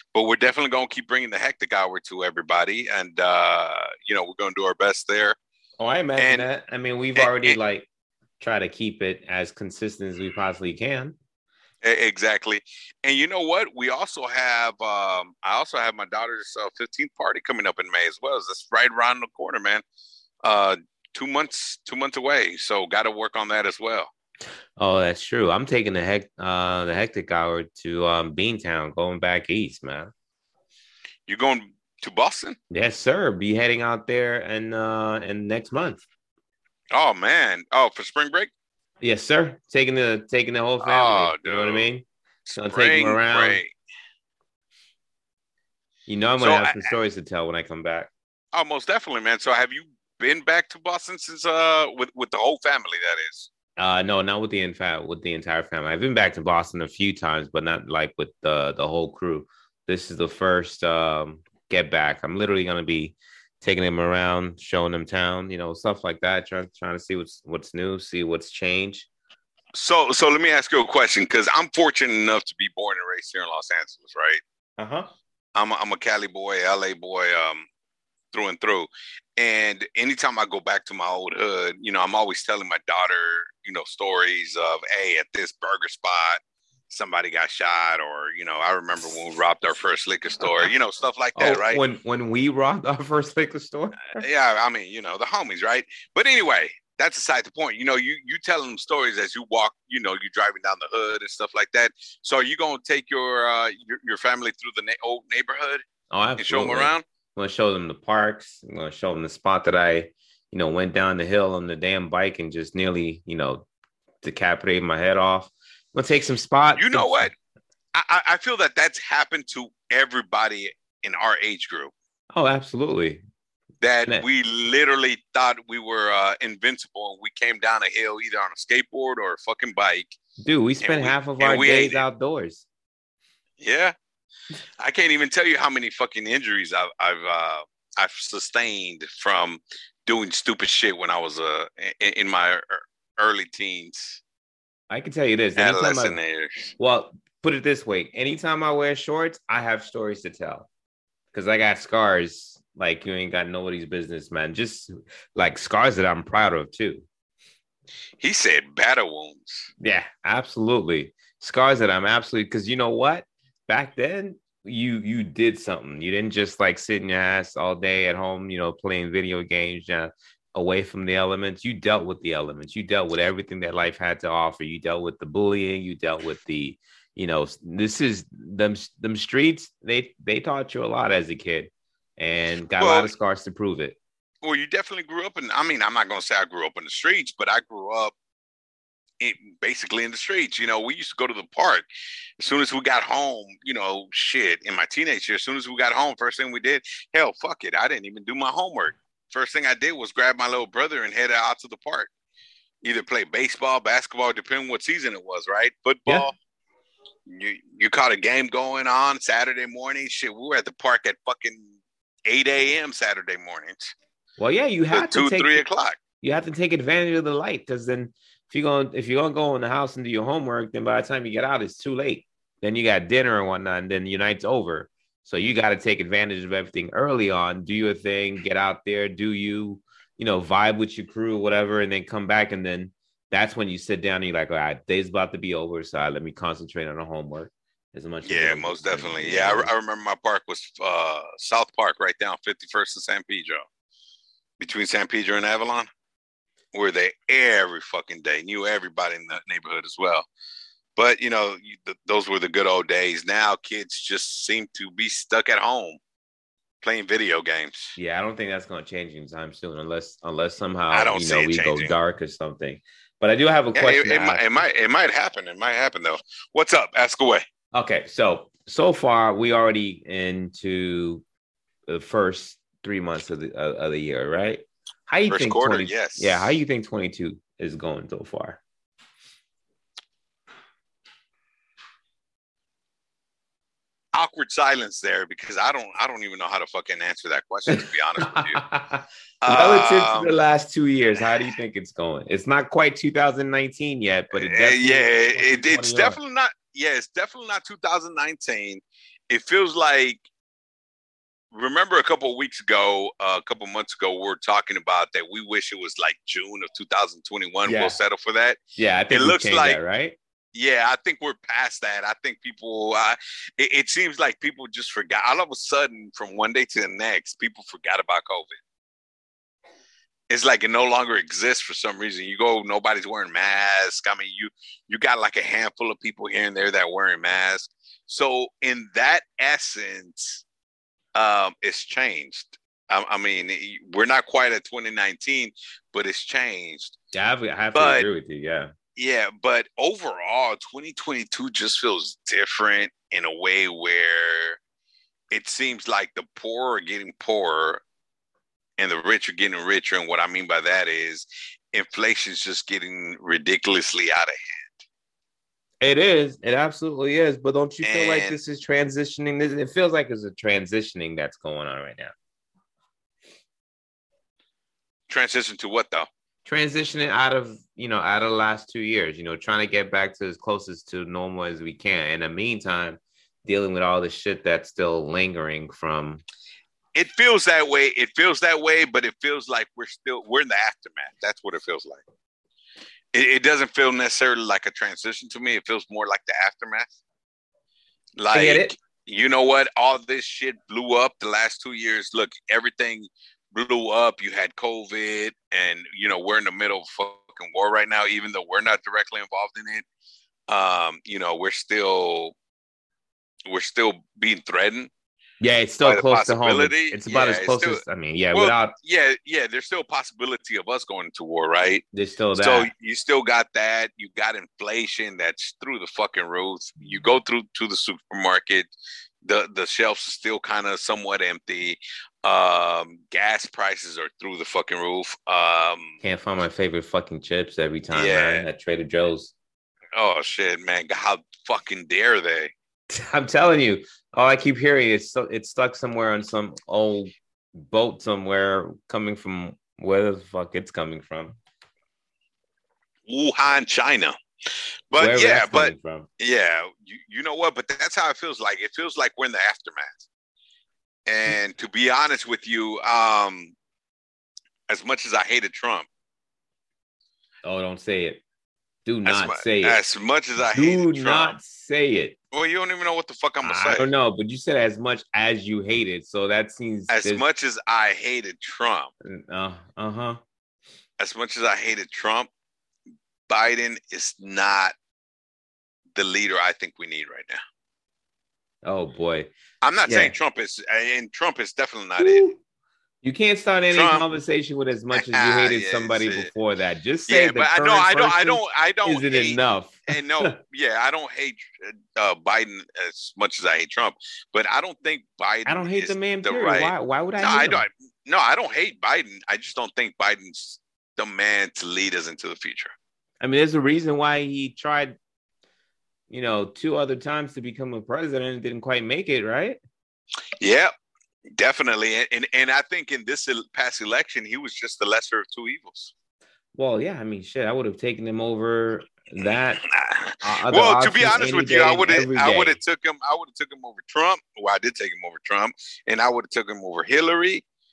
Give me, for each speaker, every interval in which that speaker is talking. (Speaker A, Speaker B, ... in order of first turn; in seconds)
Speaker A: 0.1-5.4, 6.2-6.5, 7.1-7.6, 11.8-19.8, 20.4-24.1, 31.3-32.6, 36.9-38.5, 40.8-41.9, 42.4-43.7, 46.4-46.9, 48.5-53.5, 69.7-74.4, 75.5-77.7, 78.3-91.8, 94.1-105.8, 106.4-107.0, 116.7-117.3, 117.9-121.9, 123.8-130.2, 130.8-132.0, 133.6-133.9, 134.8-144.2, 145.6-146.7, 158.2-159.7, 182.8-183.1, 184.4-188.1, 189.2-191.8, 192.4-202.1, 202.8-206.3, 207.3-211.7, 212.3-213.9, 214.9-216.0, 238.2-243.6, 244.6-245.9, 246.7-250.3, 250.9-256.0, 256.8-257.9, 260.9-261.9, 263.7-267.4, 275.3-276.6, 284.1-288.6, 289.4-290.3, 294.3-300.2, 301.5-309.8, 310.5-318.6, 320.3-330.4, 331.1-337.0, 337.7-338.1, 338.9-344.6, 345.3-347.8, 348.8-354.8, 357.8-358.4, 365.1-366.1, 376.9-382.0, 383.1-386.9, 388.2-399.8, 400.5-402.3, 403.5-404.9, 405.8-407.8, 408.3-411.8, 412.4-418.7, 419.2-426.0, 427.9-428.4, 429.9-432.5, 443.1-444.1, 444.9-450.1, 451.1-453.5, 454.7-455.9, 459.0-461.4, 462.3-463.9, 466.9-468.9, 471.0-472.3, 473.3-474.7, 475.9-477.4, 479.6-482.3, 483.7-484.1, 484.9-486.3, 487.1-502.7, 510.4-510.7, 511.4-515.9, 519.6-527.4
Speaker B: 5.8-7.9, 8.4-11.2, 24.8-30.1, 32.7-36.0, 39.0-43.6, 46.1-48.1, 53.8-69.1, 74.8-75.1, 91.3-94.2, 106.1-113.7, 114.2-117.3, 122.3-123.2, 130.4-132.6, 144.9-146.2, 146.8-150.7, 151.3-157.0, 159.8-184.0, 214.4-215.6, 216.2-239.7, 257.9-264.6, 267.7-271.2, 271.9-278.6, 287.7-296.2, 307.6-307.9, 308.8-310.1, 337.1-338.7, 355.8-362.1, 366.4-376.2, 388.3-388.7, 405.4-408.7, 411.9-412.7, 426.0-429.3, 432.9-441.4, 444.9-446.1, 457.4-458.2, 458.8-459.8, 460.4-462.1, 463.4-467.2, 469.0-470.2, 478.6-479.3, 479.9-480.1, 482.0-482.4, 483.0-490.3, 495.4-497.6, 503.2-504.9, 506.1-509.6, 516.5-519.6, 520.2-522.6